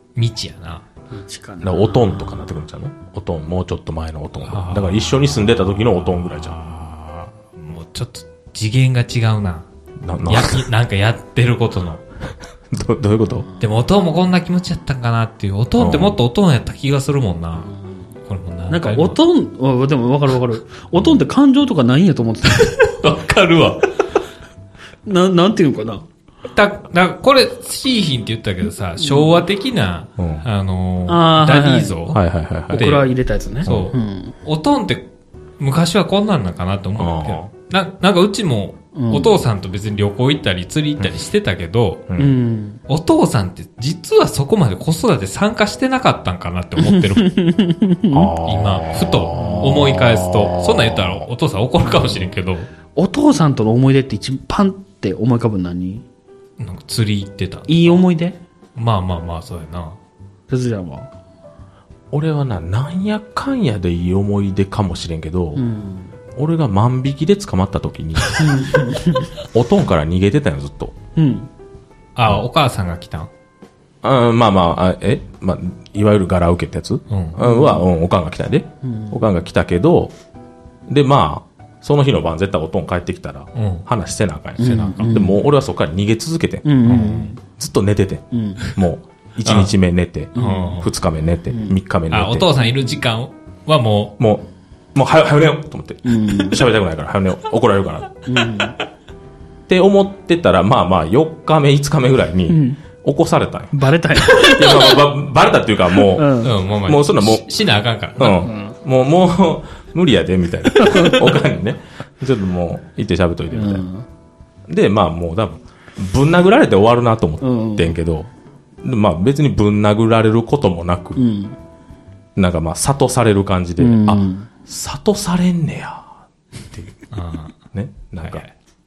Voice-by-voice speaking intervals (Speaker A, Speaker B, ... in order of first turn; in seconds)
Speaker A: 0.1-0.8, 4.5-9.7, 10.3-12.0, 13.6-17.7, 18.3-19.2, 22.4-23.9, 26.5-33.1, 33.6-35.1, 35.6-42.0, 42.9-47.4, 48.4-52.7, 56.6-58.0, 58.7-60.0, 72.2-73.3, 77.1-77.4, 83.5-83.9, 84.6-85.2, 86.8-87.3, 89.4-89.7, 90.3-90.9, 92.1-94.2, 106.4-108.5, 127.1-127.5, 128.2-128.5
Speaker B: 1.1-2.5, 18.7-22.8, 25.0-26.1, 29.0-29.3, 31.1-32.0, 32.7-34.4, 38.9-39.3, 42.2-42.8, 46.8-48.4, 49.3-49.8, 51.8-52.3, 52.9-56.0, 57.7-58.4, 60.5-61.1, 65.5-66.1, 68.3-69.3, 71.2-71.5, 77.4-77.9, 78.8-79.2, 84.6-85.4, 86.6-87.4, 88.3-88.6, 90.3-90.8, 91.5-91.8, 96.0-96.7, 98.2-98.8, 102.5-102.8, 103.7-104.9, 106.0-106.5, 108.4-108.7, 110.7-111.3, 113.5-114.1, 117.4-117.9, 121.2-121.6, 123.8-124.5
Speaker C: 1.6-6.6, 10.0-10.7, 12.7-13.5, 15.8-16.2, 30.2-30.4, 32.1-32.9, 33.6-33.9, 37.0-37.5, 42.1-42.3, 48.1-51.3, 62.1-65.6, 66.3-68.5, 69.5-70.9, 74.0-80.1, 80.9-92.5, 94.2-98.1, 99.7-107.5, 108.2-113.8, 114.7-118.3, 118.8-121.2, 122.3-126.1, 127.7-128.4